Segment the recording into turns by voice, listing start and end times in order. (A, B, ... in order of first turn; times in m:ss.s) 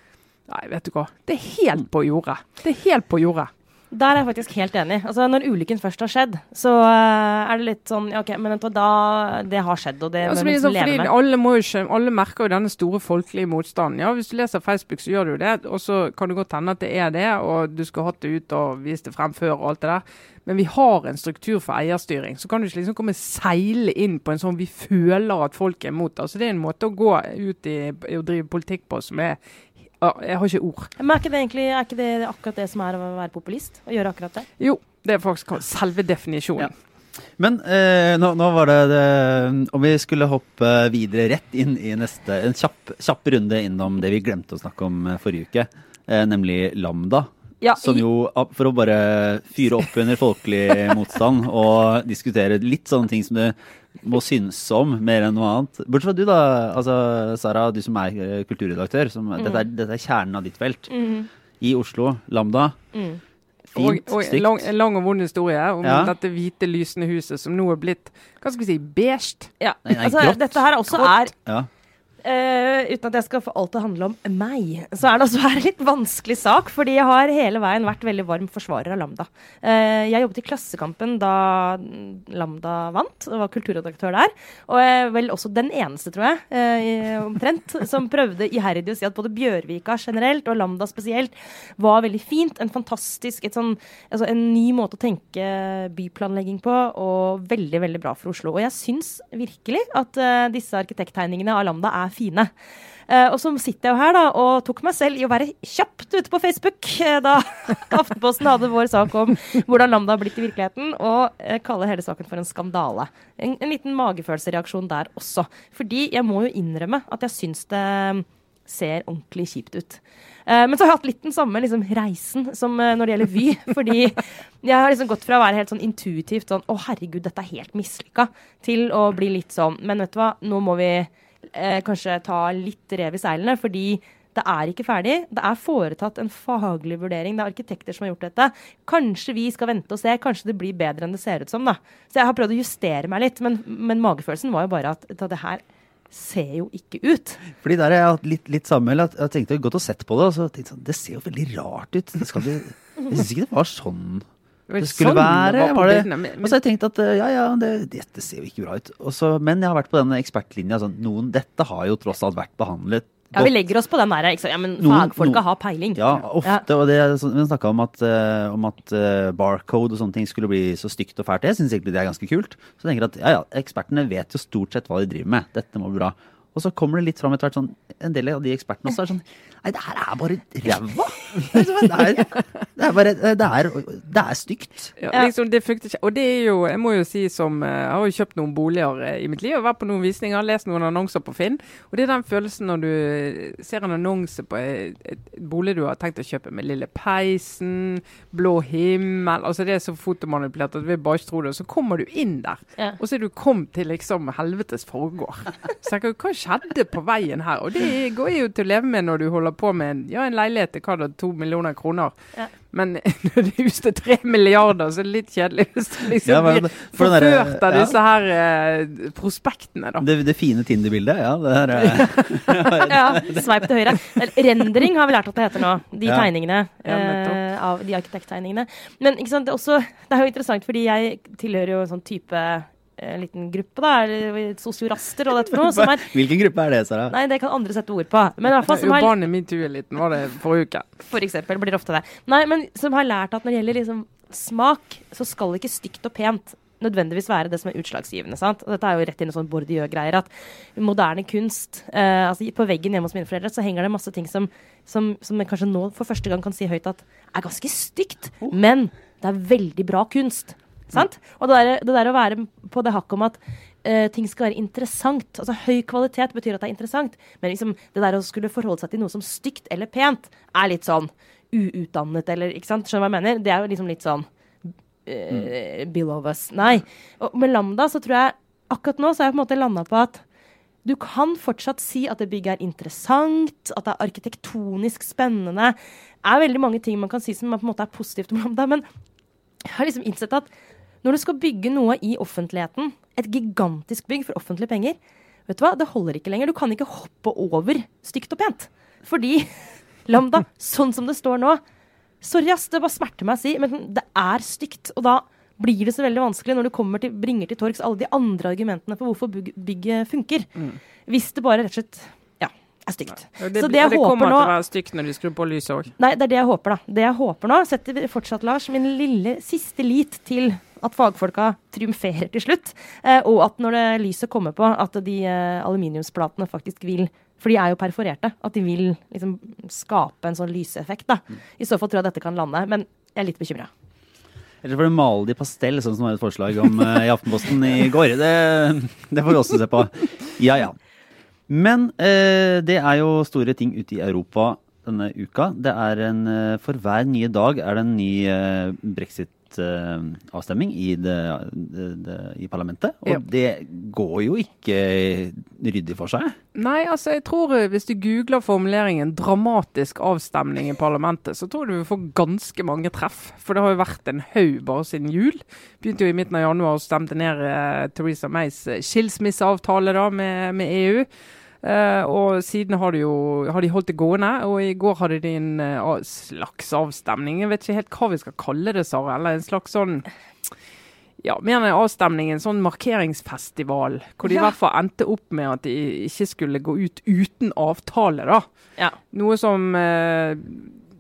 0:00.5-0:03.5 A
0:03.9-0:11.1 B
0:10.2-0:29.4 A
0:30.0-0:30.9 A
0:31.0-0:34.5 B
0:34.6-0:36.7 A
0:37.4-1:00.9 C
0:47.6-0:48.0 B
1:00.9-1:01.3 B
1:01.6-1:02.8 C
1:02.9-1:03.2 B
1:03.7-1:04.6 C
1:03.8-1:09.5 A
1:05.8-1:06.1 C
1:09.6-1:11.3 B
1:09.8-1:11.7 C
1:12.2-1:42.5 B
1:43.1-2:27.4 B
2:27.5-2:34.2 C
2:34.7-2:36.6 A
2:34.8-2:43.5 C
2:43.3-2:46.6 B
2:44.8-2:45.4 C
2:45.9-3:04.9 C
3:05.0-3:32.1 A
3:32.7-3:40.1 A
3:36.2-3:38.0 C
3:40.0-3:43.5 C
3:41.8-3:42.9 A
3:42.8-3:56.1 B
3:46.8-3:47.4 A
3:55.6-3:57.1 C
3:57.1-3:59.1 B
3:58.6-4:00.8 A
4:01.1-4:34.2 B
4:35.0-4:40.2 B
4:40.8-4:48.8 B
4:49.6-4:50.5 B
4:51.0-4:55.0 B
4:55.5-5:01.6 B
5:02.2-5:10.5 B
5:11.1-5:14.5 B
5:13.4-5:15.9 A
5:16.0-5:33.7 B
5:34.6-5:40.8 C
5:41.5-5:56.4 C
5:56.5-6:11.1 A
6:11.6-6:20.0 A
6:21.2-6:28.4 A
6:29.1-6:30.8 A